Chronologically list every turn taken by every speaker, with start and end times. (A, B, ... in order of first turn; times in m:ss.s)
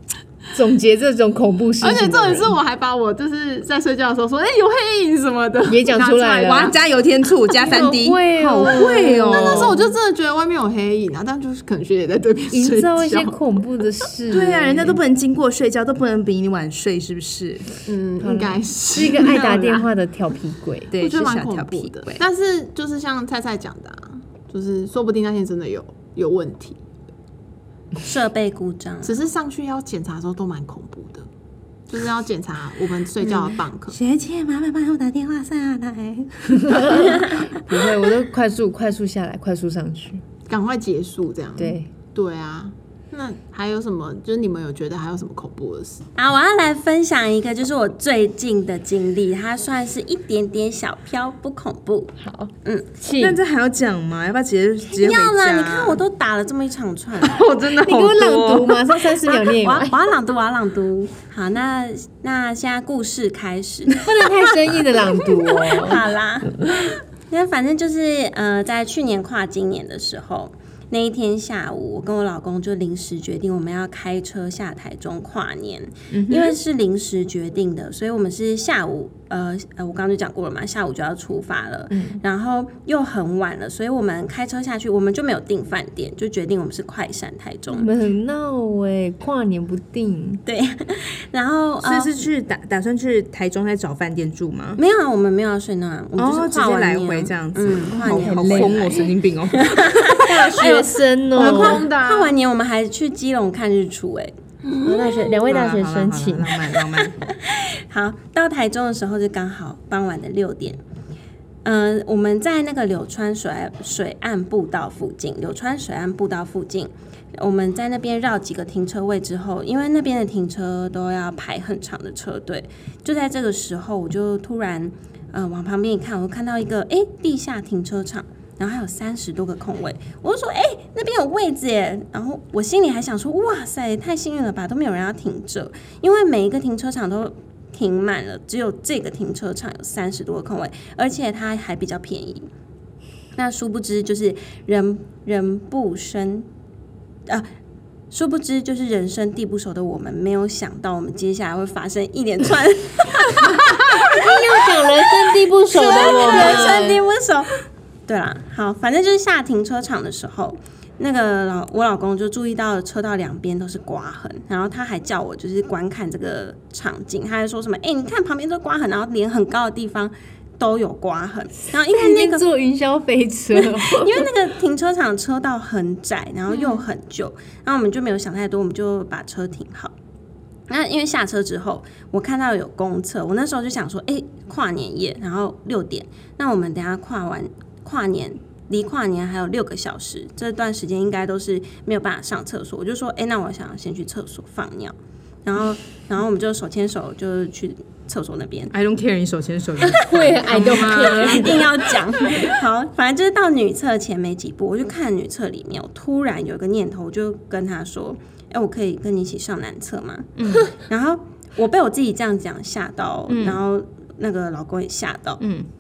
0:00.5-0:02.6 A
0:01.8-0:06.8 B
0:05.7-0:06.8 A
0:06.4-0:09.8 C
0:07.5-0:07.9 B
0:07.6-0:10.0 A
0:08.6-0:13.4 B
0:12.5-0:15.0 A
0:14.3-0:17.7 C
0:17.9-0:19.9 B
0:18.2-0:20.9 A
0:20.9-0:22.2 C
0:21.0-0:26.8 B
0:28.0-0:29.2 D
0:29.0-0:31.3 B
0:31.9-0:34.0 B
0:33.3-0:37.1 C
0:36.5-0:40.2 A
0:40.5-0:46.1 B
0:41.6-0:41.9 A
0:46.2-0:52.1 D
0:52.2-0:53.4 A
0:53.2-0:56.0 C
0:54.9-0:57.4 D
0:57.2-0:58.9 C
0:57.8-1:00.0 A
0:59.5-1:04.0 D
1:04.0-1:06.9 A
1:05.7-1:27.9 D
1:16.1-1:16.6 C
1:21.9-1:22.2 A
1:27.7-1:30.4 A
1:30.5-1:32.2 D
1:31.8-1:34.8 C
1:34.8-1:39.0 D
1:36.2-1:39.8 C
1:38.0-1:39.1 A
1:39.6-1:44.3 D
1:40.2-1:41.9 A
1:41.3-1:42.4 B
1:44.6-1:45.4 B
1:44.8-1:46.6 A
1:45.5-1:47.2 C
1:47.3-1:50.8 D
1:51.6-2:22.5 D
2:23.4-2:26.5 D
2:28.1-2:34.7 D
2:34.0-2:37.0 A
2:35.7-2:37.5 D
2:38.1-2:52.4 D
2:51.9-2:54.3 A
2:53.5-2:59.9 D
3:00.7-3:18.7 D
3:18.7-3:21.5 C
3:19.9-3:22.0 A
3:21.0-3:35.4 D
3:30.4-3:30.7 C
3:33.3-3:33.6 C
3:35.4-3:35.7 C